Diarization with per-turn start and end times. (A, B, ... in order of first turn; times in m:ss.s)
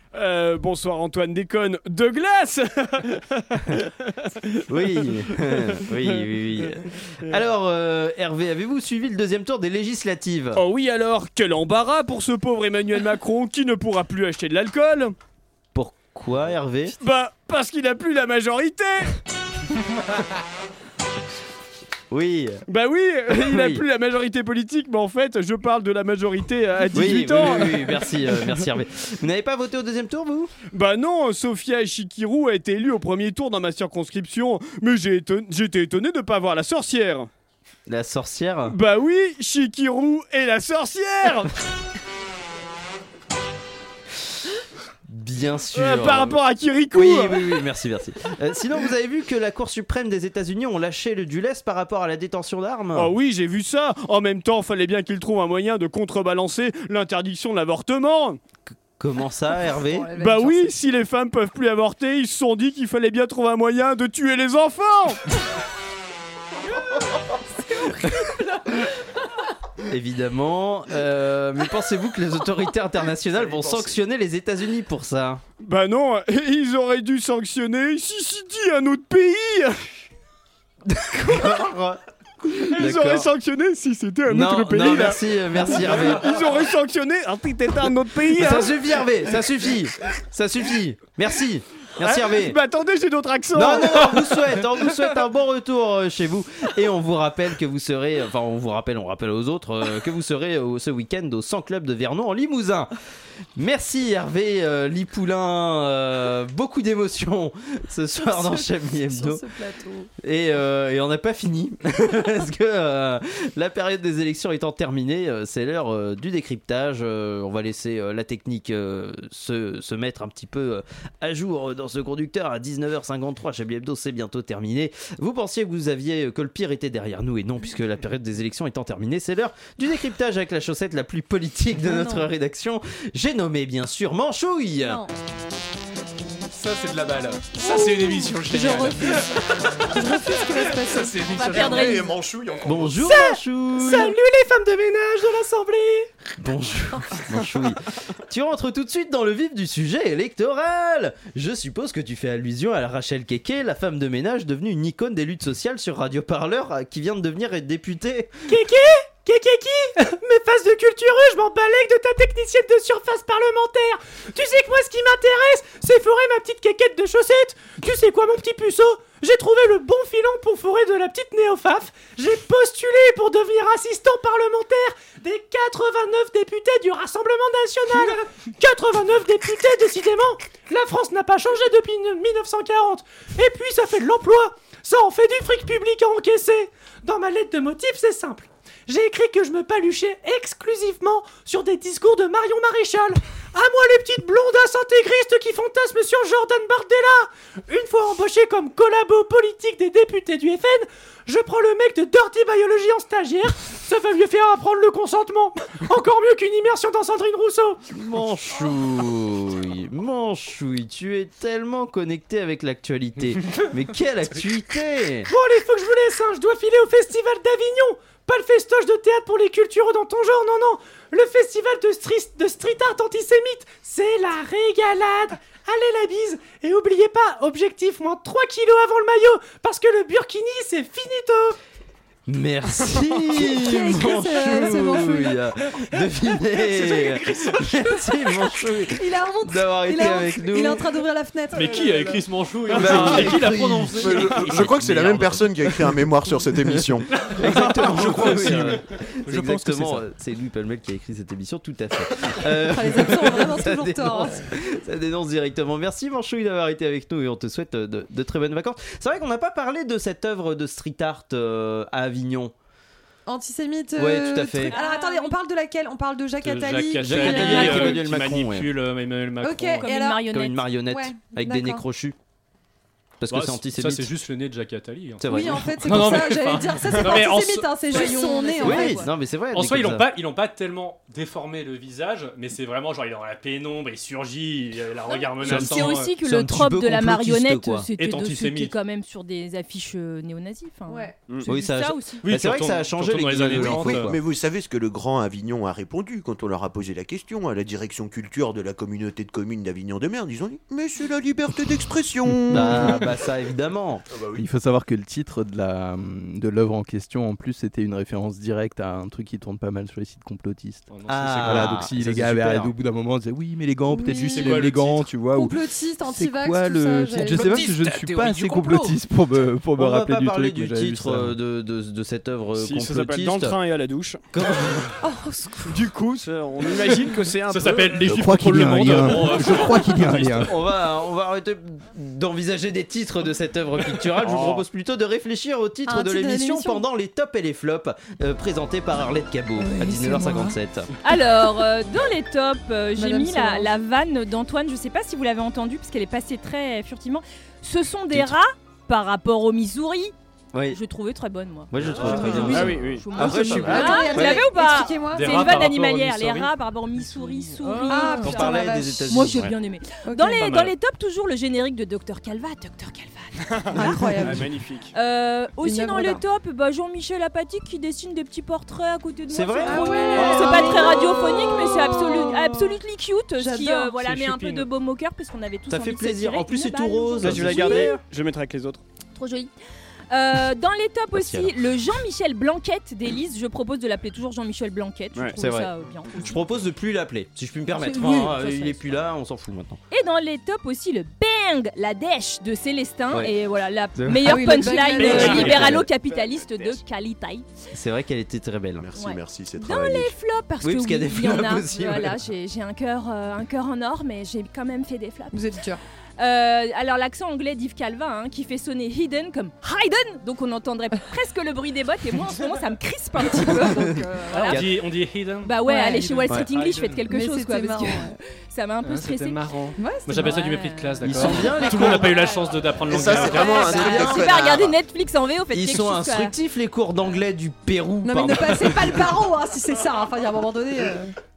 0:00.1-0:04.5 A
0:04.7-0:10.6 B
0:10.6-0:15.1 A
0:15.7-0:17.0 B
0:17.0-0:19.1 A
0:22.1-0:22.6 B
0:22.7-0:28.0 A
0:23.3-0:23.8 B
0:26.9-0:30.5 B
0:30.7-0:37.3 A
0:37.9-0:38.8 B
0:38.7-0:41.5 A
0:45.1-0:46.4 B
0:45.7-0:47.4 A
0:46.9-0:53.1 B
0:52.9-0:58.4 A
0:58.7-1:00.1 B
0:59.9-1:00.7 C
1:00.1-1:05.2 A
1:09.8-1:15.4 B
1:13.4-1:13.9 D
1:15.6-1:19.8 A
1:20.9-1:22.0 B
1:22.5-1:28.8 A
1:22.7-1:23.3 B
1:24.3-1:26.4 B
1:28.3-1:32.6 B
1:32.0-1:34.6 A
1:33.5-1:42.9 B
1:43.6-1:49.4 B
1:48.2-1:50.1 C
1:50.2-2:15.0 B
2:11.8-2:12.3 C
2:14.8-2:15.1 C
2:16.5-2:19.4 E
2:17.6-2:22.0 C
2:20.0-2:22.0 E
2:21.5-2:22.1 F
2:21.5-2:23.1 D
2:22.6-2:24.2 B
2:23.0-2:26.1 G
2:26.4-2:38.4 B
2:38.5-3:27.8 G
3:27.9-3:35.3 B
3:35.3-3:51.6 G
3:52.3-4:00.8 B
3:53.3-3:55.4 C
3:58.9-4:02.2 C
4:01.5-4:05.3 H
4:02.7-4:07.1 D
4:02.7-4:05.3 B
4:07.2-4:22.5 B
4:07.4-4:08.2 H
4:07.7-4:08.7 E
4:08.3-4:08.6 D
4:09.4-4:09.8 E
4:12.5-4:14.4 C
4:23.2-4:27.9 C
4:24.0-4:24.8 B
4:24.7-4:25.4 F
4:26.4-4:29.9 H
4:27.0-4:28.7 B
4:29.4-4:30.2 C
4:29.8-4:30.7 F
4:30.3-4:32.2 B
4:30.8-4:31.8 C
4:33.2-4:34.1 B
4:33.3-4:38.0 H
4:35.2-4:36.3 B
4:35.2-4:39.1 C
4:37.8-4:39.1 F
4:38.6-4:40.0 B
4:39.5-4:46.2 H
4:45.1-4:52.2 F
4:45.4-4:47.9 B
4:48.0-4:48.7 H
4:50.9-4:51.1 C
4:51.4-4:54.2 B
4:52.2-4:54.1 H
4:53.6-5:03.0 D
5:02.5-5:04.0 B
5:04.1-5:04.4 D
5:04.4-5:10.9 I
5:10.9-5:12.6 H
5:11.1-5:12.7 B
5:11.4-5:21.4 I
5:13.9-5:14.7 C
5:14.2-5:15.1 H
5:15.3-5:17.7 C
5:17.6-5:18.6 H
5:19.8-5:23.6 B
5:22.6-5:24.2 A
5:24.3-5:24.9 B
5:25.0-5:25.8 C
5:25.7-5:28.1 A
5:27.4-5:30.3 H
5:28.0-5:30.5 I
5:30.4-5:40.9 B
5:34.2-5:34.6 A
5:35.9-5:36.8 C
5:39.6-5:40.6 C
5:41.0-5:50.1 F
5:43.0-5:43.7 C
5:48.1-5:48.4 B
5:50.5-5:50.8 B
5:50.7-6:04.2 F
5:51.7-5:54.4 B
5:52.5-5:53.1 A
5:53.1-5:55.6 C
5:55.1-5:56.5 H
5:57.8-5:59.2 C
5:58.2-5:59.5 B
6:00.0-6:00.5 C
6:00.4-6:00.7 H
6:03.8-6:04.5 C
6:04.3-6:04.9 A
6:04.9-6:18.0 F
6:05.6-6:06.2 C
6:09.3-6:11.0 B
6:09.6-6:12.8 C
6:13.4-6:14.0 C
6:14.0-6:14.7 A
6:15.7-6:18.0 B
6:17.2-6:18.8 A
6:19.1-6:19.5 F
6:20.1-6:26.4 F
6:21.1-6:21.5 B
6:25.4-6:29.8 B
6:27.8-6:28.9 F
6:29.9-6:37.5 F
6:34.0-6:35.9 B
6:34.2-6:35.6 C
6:34.9-6:35.8 H
6:37.7-6:38.9 B
6:38.8-6:40.2 D
6:38.9-6:45.4 F
6:40.6-6:42.2 B
6:45.3-6:45.8 C
6:46.2-6:54.7 F
6:53.2-6:54.0 C
6:54.3-6:55.6 H
6:55.4-6:59.4 F
6:55.6-6:56.4 C
6:56.3-6:57.0 H
6:57.1-6:58.2 C
6:58.8-7:03.9 H
6:59.8-7:00.4 C
7:00.2-7:02.5 F
7:01.0-7:02.2 B
7:02.9-7:04.8 D
7:03.1-7:06.3 F
7:03.7-7:04.3 B
7:05.5-7:09.1 B
7:08.0-7:11.1 C